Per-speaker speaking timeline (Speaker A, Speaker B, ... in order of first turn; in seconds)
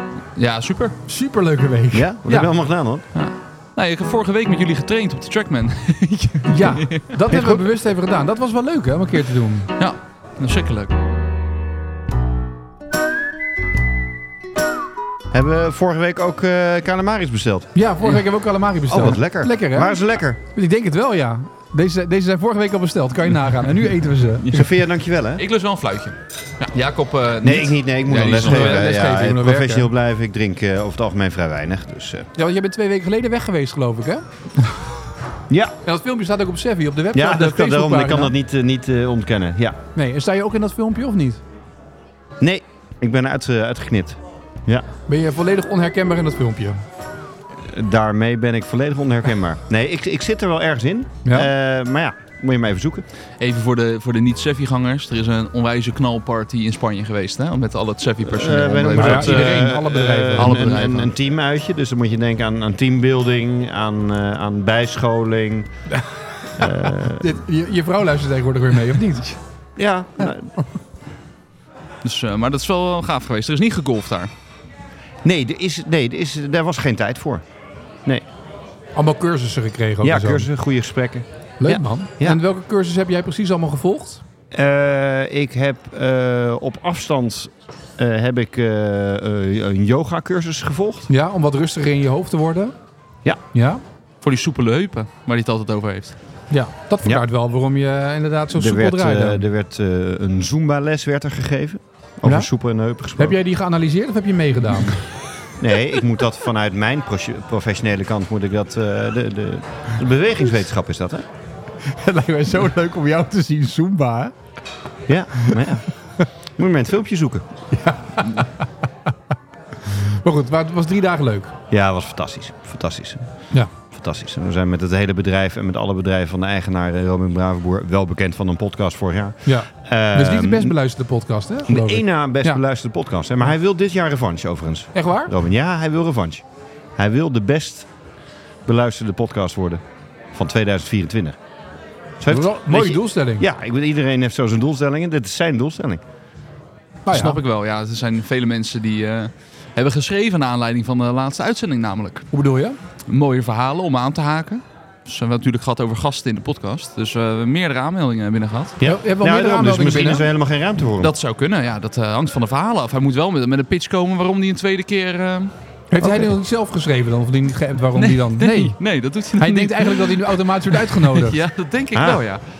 Speaker A: 0.3-1.0, 3.1-7.5, 9.8-10.9, 24.4-24.7, 25.4-28.9, 53.4-59.7, 60.4-61.1, 72.0-74.3, 94.2-96.2, 147.1-152.3, 153.1-158.8, 161.0-166.2, 167.9-172.4
Speaker B: 1.1-2.5, 6.5-9.7, 17.7-24.5, 28.4-29.9, 32.3-34.2, 35.8-38.3, 39.9-41.4, 45.1-46.8, 51.2-51.5, 58.9-61.0, 65.9-69.4, 78.9-80.5, 81.6-84.2, 91.1-92.7, 93.5-93.8, 96.5-99.4, 103.2-105.0, 111.8-114.3, 115.4-115.7, 117.7-118.6, 119.8-121.5, 129.4-132.6, 134.9-135.3, 142.3-143.4, 147.1-147.4, 152.3-152.8, 158.8-160.2, 165.9-168.8, 169.3-171.4
Speaker C: 1.9-3.0, 15.3-17.7, 18.9-20.4, 24.5-25.4, 27.4-32.3, 35.5-35.8, 37.1-39.8, 42.4-44.8, 47.6-53.0, 58.2-65.7, 66.6-67.3, 69.8-70.5, 75.2-77.4, 80.0-82.4, 84.5-91.1, 98.5-103.3, 105.6-111.2, 115.1-115.9, 116.6-117.5, 121.7-123.3, 123.9-130.7, 131.7-136.4, 137.0-137.9, 138.7-139.8, 140.3-141.4, 142.2-146.0, 158.8-161.1, 171.9-172.2